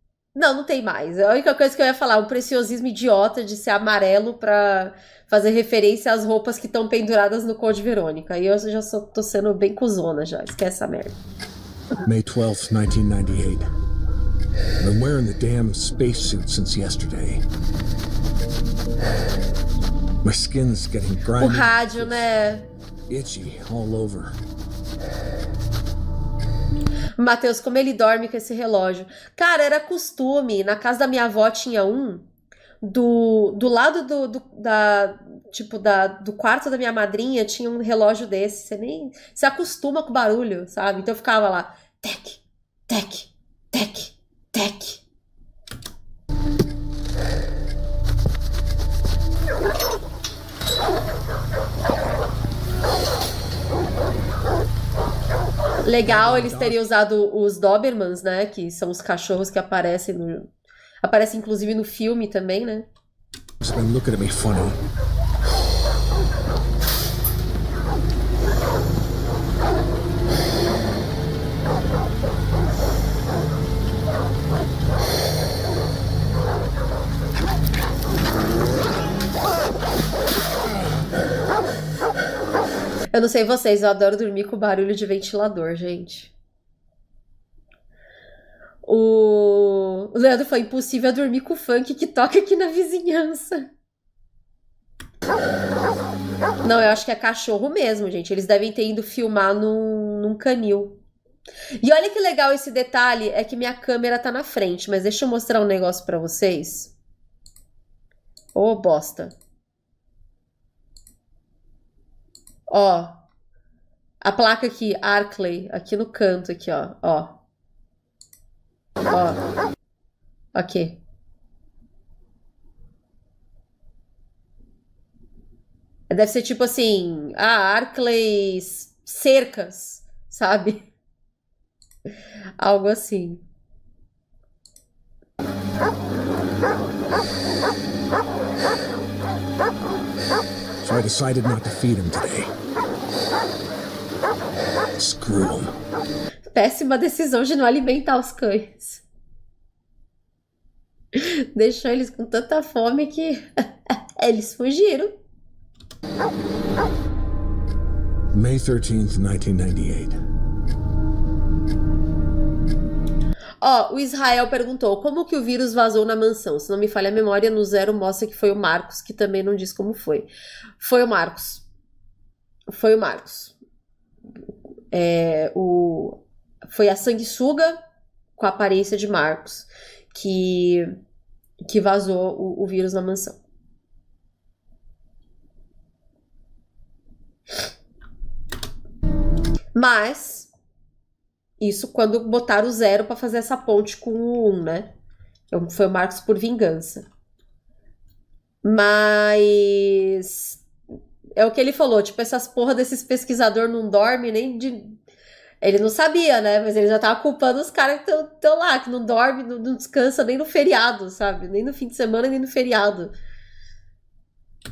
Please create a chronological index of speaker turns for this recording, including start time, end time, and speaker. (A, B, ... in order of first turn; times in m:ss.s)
0:00.3-0:11.2 A
0:12.0-0:13.7 B
0:14.8-0:17.4 B
0:20.2-0:22.2 B
0:21.4-0:22.7 A
0:23.1-0:24.4 B
0:27.2-0:32.2 A
0:32.8-0:45.0 A
0:55.8-1:00.5 A
0:56.0-0:56.9 B
1:01.0-1:02.9 A
1:03.6-1:04.8 B
1:23.1-1:26.3 A
1:28.8-1:33.6 A
1:36.6-1:41.0 A
1:41.8-1:46.9 A
1:48.5-1:49.4 A
1:52.7-1:53.2 A
1:54.2-1:57.4 A
1:59.1-1:59.4 A
2:00.5-2:01.0 A
2:06.1-2:10.8 A
2:12.6-2:13.4 A
2:20.8-2:22.5 B
2:25.0-2:25.7 B
2:26.5-2:29.0 A
2:31.1-2:33.4 A
2:34.2-2:35.2 A
2:38.3-2:40.2 B
2:43.6-2:51.6 A
2:52.7-2:53.5 A
2:54.9-2:57.8 A
2:58.4-3:00.9 A
3:01.6-3:03.4 A
3:09.7-3:10.5 A
3:11.6-3:14.9 A
3:15.5-3:17.0 A
3:18.6-3:20.6 A
3:21.4-3:25.0 A
3:25.6-3:33.1 A